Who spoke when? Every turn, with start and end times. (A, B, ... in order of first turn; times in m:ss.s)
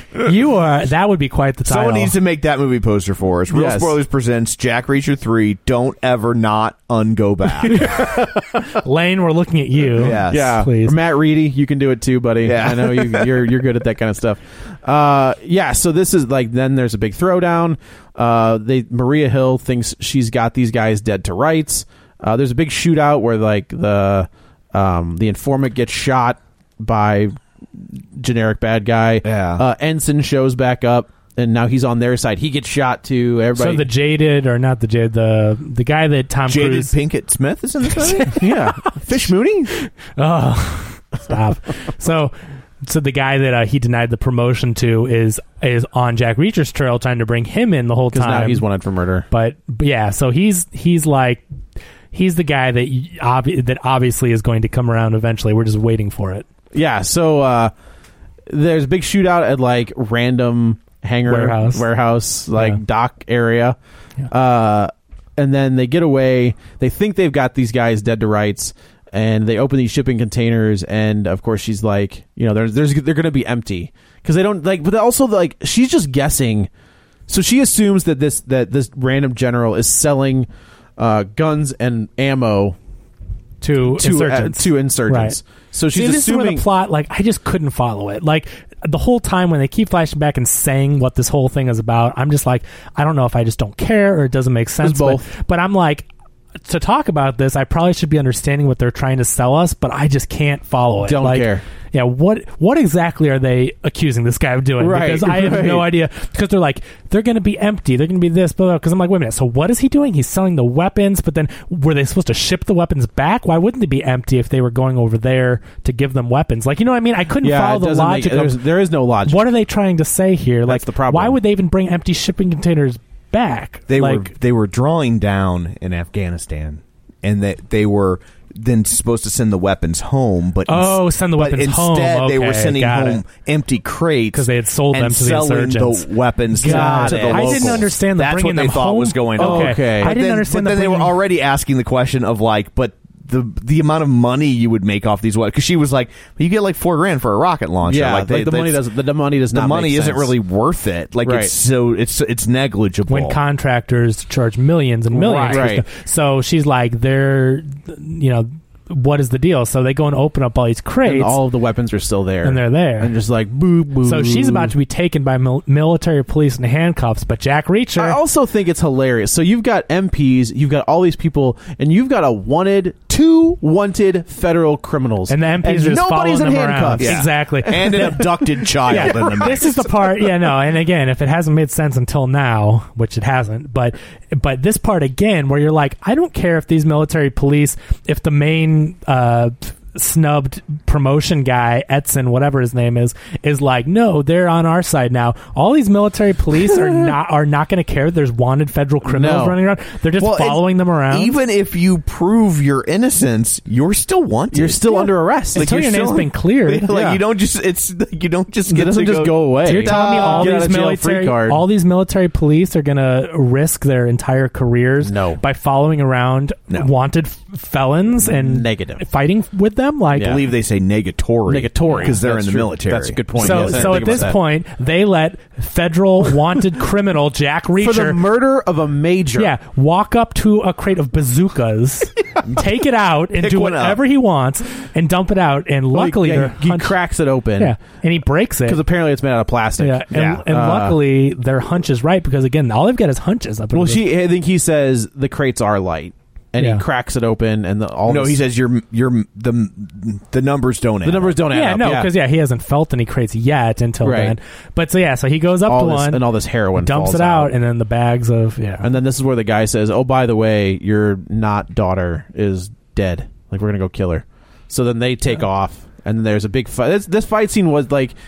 0:00.1-0:02.1 A
0:01.6-0:07.8 B
0:03.5-0:04.0 C
0:07.8-0:08.3 C
0:08.6-0:11.0 A
0:10.0-0:10.5 B
0:10.0-0:33.9 C
0:12.4-0:13.5 B
0:29.2-0:29.6 B
0:33.6-0:36.9 A
0:36.5-0:38.4 B
0:38.2-0:38.9 A
0:38.4-0:39.7 C
0:40.2-0:48.7 A
0:48.1-0:49.3 C
0:49.3-0:51.4 A
0:52.1-0:56.5 A
0:56.7-0:57.7 C
0:58.5-1:03.8 C
1:01.3-1:01.9 A
1:04.3-1:16.7 C
1:17.3-1:22.8 C
1:23.6-1:25.4 A
1:23.8-1:26.6 C
1:25.9-1:36.1 A
1:34.8-1:35.3 C
1:36.6-1:58.6 A
1:41.0-1:41.6 C
1:44.8-1:45.9 C
1:57.4-1:59.4 C
1:59.2-2:04.3 A
2:00.7-2:01.4 C
2:03.9-2:28.8 B
2:10.7-2:13.2 A
2:14.3-2:21.1 A
2:16.6-2:17.9 C
2:19.4-2:20.2 C
2:27.8-2:30.4 C
2:29.5-2:33.4 B
2:31.2-2:31.5 C
2:33.1-2:41.4 A
2:35.2-2:35.8 C
2:35.2-2:35.7 B
2:41.0-2:44.7 C
2:42.4-2:43.1 A
2:44.0-2:48.2 A
2:48.0-2:58.3 C
2:55.3-2:58.2 A
2:57.0-2:59.9 B
2:58.8-2:59.7 C
2:58.9-3:21.4 A
3:19.0-3:19.6 C
3:20.2-3:30.6 B
3:24.5-3:25.7 C
3:25.6-3:26.9 A
3:26.9-3:27.2 C
3:28.7-3:31.6 C
3:29.6-3:40.4 A
3:35.0-3:35.4 C
3:38.2-3:39.0 C
3:40.2-3:40.4 C
3:40.2-3:44.2 B
3:41.5-3:44.4 C
3:43.4-3:48.2 A
3:47.8-3:49.5 C
3:49.4-3:57.0 A
3:53.4-3:54.0 B
3:55.9-3:57.8 C
3:57.6-3:58.8 A
3:58.6-4:01.0 C
3:59.8-4:04.1 A
4:00.1-4:00.4 B
4:03.7-4:08.4 C
4:06.6-4:06.8 A
4:08.1-4:11.4 B
4:11.0-4:12.1 C
4:11.5-4:18.9 A
4:14.0-4:14.4 C
4:15.7-4:17.5 C
4:18.8-4:28.2 C